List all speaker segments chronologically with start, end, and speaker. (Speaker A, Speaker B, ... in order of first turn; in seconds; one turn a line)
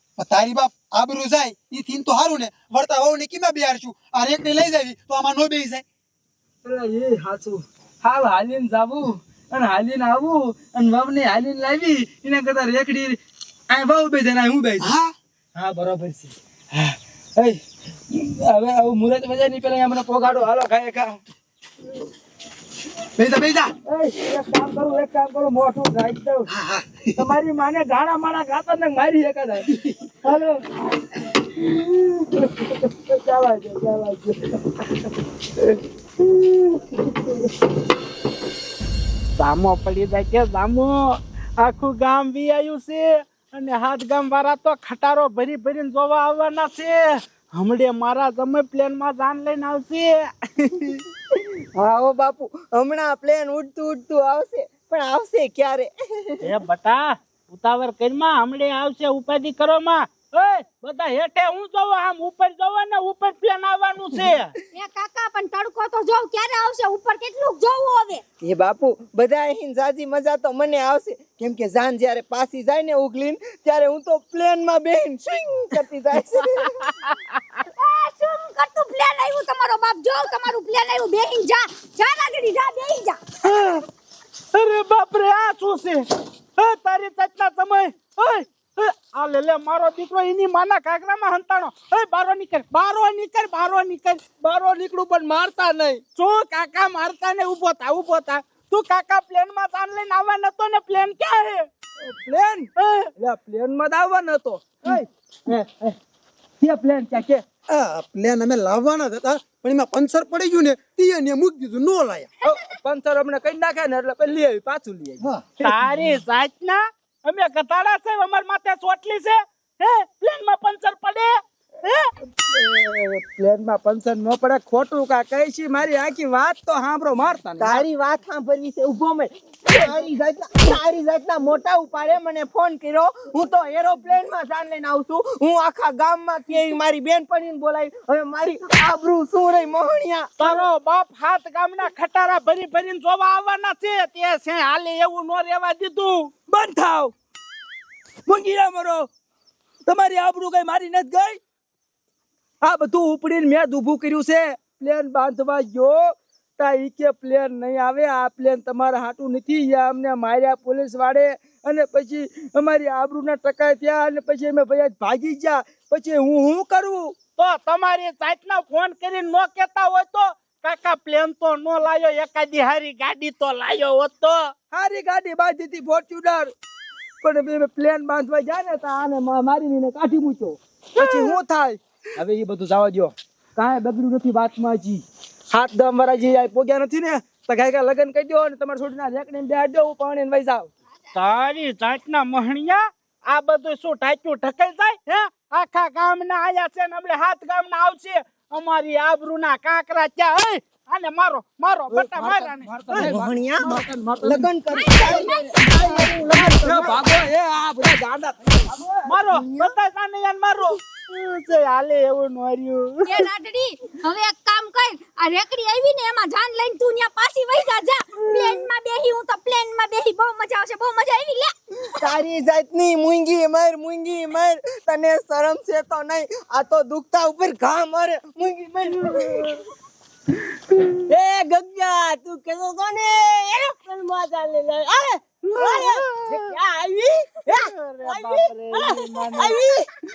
Speaker A: 0.2-5.8
Speaker B: 6.6-13.2
Speaker B: 13.7-14.9
Speaker A: 14.8-15.1
Speaker B: 15.6-21.2
Speaker A: 23.2-23.7
Speaker B: 23.9-26.5
Speaker A: 26.5-27.1
Speaker B: 27.2-30.7
Speaker B: 31.6-34.9
Speaker B: 37.1-37.3
Speaker C: 39.4-50.2
Speaker D: 51.8-56.4
Speaker C: 56.4-64.5
Speaker E: 64.8-68.2
Speaker D: 68.4-76.7
Speaker E: 77.8-83.2
Speaker C: 83.4-83.8
Speaker C: 84.5-86.1
Speaker C: 86.6-94.2
Speaker B: 94.4-96.0
Speaker C: 96.2-101.7
Speaker B: 102.0-106.0
Speaker C: 102.8-103.1
Speaker B: 106.6-107.5
Speaker A: 107.7-112.3
Speaker B: 112.4-115.7
Speaker C: 115.6-122.1
Speaker B: 122.4-127.8
Speaker D: 127.6-140.6
Speaker C: 140.4-146.3
Speaker B: 146.5-147.1
Speaker B: 148.3-149.1
Speaker B: 149.9-151.4
Speaker B: 152.6-167.2
Speaker C: 167.4-174.5
Speaker B: 174.7-176.5
Speaker B: 177.2-190.7
Speaker C: 181.0-181.4
Speaker C: 191.2-202.7
Speaker B: 201.9-209.2
Speaker D: 202.9-207.0
Speaker E: 204.7-205.5
Speaker C: 209.1-213.3
Speaker E: 213.1-221.5
Speaker D: 222.0-229.5
Speaker F: 231.1-239.9
Speaker C: 235.6-236.3
Speaker C: 237.5-239.6